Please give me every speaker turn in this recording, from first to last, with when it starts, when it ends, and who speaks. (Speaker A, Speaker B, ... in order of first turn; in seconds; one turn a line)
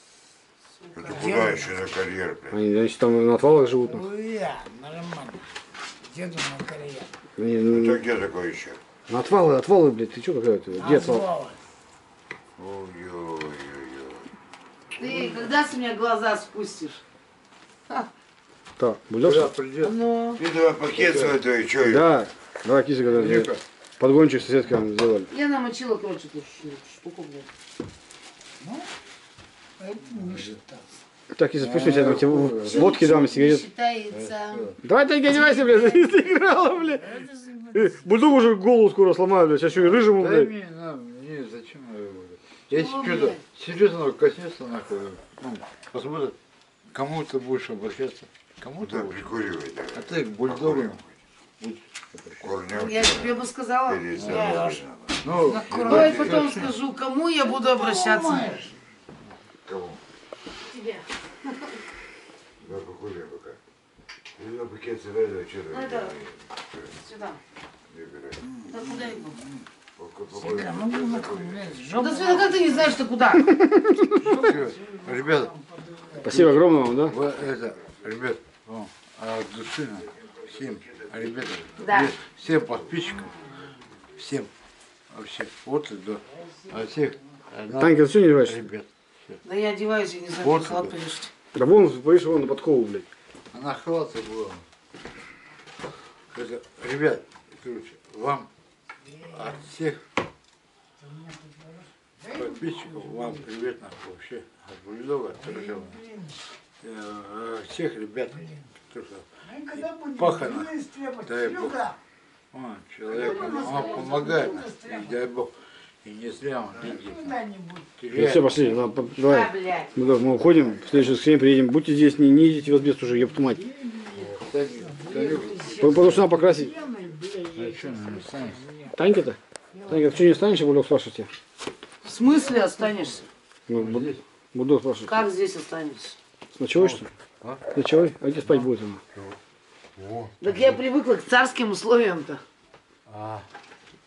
Speaker A: 0.9-2.6
Speaker B: 1.0-1.8
Speaker C: 2.5-4.0
Speaker B: 3.8-5.4
Speaker B: 6.0-7.1
Speaker C: 7.4-8.0
Speaker A: 7.7-8.8
Speaker C: 9.1-11.2
Speaker B: 10.8-11.6
Speaker A: 12.6-14.3
Speaker D: 15.0-17.0
Speaker C: 18.8-19.5
Speaker E: 19.2-19.9
Speaker D: 19.8-20.4
Speaker A: 20.4-22.1
Speaker E: 20.9-21.4
Speaker C: 21.9-25.3
Speaker E: 23.1-23.6
Speaker D: 25.3-27.5
Speaker B: 28.6-28.9
Speaker B: 29.8-30.8
Speaker E: 30.2-30.6
Speaker C: 31.3-33.6
Speaker E: 31.6-33.0
Speaker D: 32.7-34.7
Speaker E: 34.1-34.8
Speaker C: 34.8-37.2
Speaker D: 35.3-36.2
Speaker B: 36.8-38.1
Speaker C: 37.7-40.5
Speaker E: 39.7-46.3
Speaker D: 42.7-43.4
Speaker E: 46.9-49.3
Speaker A: 48.8-51.0
Speaker E: 49.9-51.0
Speaker E: 51.6-52.5
Speaker A: 52.4-55.2
Speaker D: 52.7-54.8
Speaker B: 54.3-54.8
Speaker E: 55.2-56.7
Speaker B: 55.4-56.6
Speaker D: 55.7-58.5
Speaker B: 57.4-58.7
Speaker A: 59.6-60.0
Speaker D: 60.6-61.8
Speaker A: 62.6-63.6
Speaker A: 64.4-66.9
Speaker D: 65.7-66.1
Speaker D: 67.0-67.4
Speaker A: 67.9-68.4
Speaker B: 68.4-69.6
Speaker D: 68.7-69.4
Speaker A: 70.0-71.9
Speaker B: 70.3-72.9
Speaker D: 72.0-73.5
Speaker C: 73.4-74.3
Speaker B: 74.1-76.5
Speaker E: 74.2-75.5
Speaker C: 76.2-77.2
Speaker E: 76.3-83.5
Speaker A: 80.2-81.3
Speaker D: 81.8-82.1
Speaker E: 84.2-84.5
Speaker E: 85.1-89.4
Speaker B: 86.5-86.7
Speaker C: 87.8-88.6
Speaker D: 89.4-91.3
Speaker E: 90.4-90.9
Speaker C: 91.5-93.0
Speaker E: 93.5-94.6
Speaker E: 96.3-98.5
Speaker B: 99.0-99.6
Speaker E: 99.3-100.0
Speaker B: 101.0-103.4
Speaker E: 102.3-106.0
Speaker B: 105.4-106.4
Speaker E: 106.8-109.2
Speaker B: 109.4-112.0
Speaker E: 109.8-110.7
Speaker E: 111.2-111.8
Speaker E: 112.5-115.5
Speaker B: 113.1-115.2
Speaker D: 113.1-114.2
Speaker E: 116.0-117.4
Speaker B: 116.8-117.9
Speaker E: 118.0-118.6
Speaker C: 118.1-123.6
Speaker D: 119.2-119.9
Speaker B: 123.6-128.9
Speaker E: 124.1-125.9
Speaker C: 125.8-126.7
Speaker E: 127.5-128.6
Speaker C: 128.9-129.4
Speaker B: 129.7-130.3
Speaker C: 129.9-131.3
Speaker D: 132.0-133.3
Speaker C: 133.7-135.1
Speaker E: 133.7-134.2
Speaker D: 135.1-136.2
Speaker C: 136.6-137.0
Speaker E: 136.7-137.6
Speaker C: 137.7-139.0
Speaker E: 139.9-140.6
Speaker D: 140.4-142.4
Speaker E: 143.1-143.4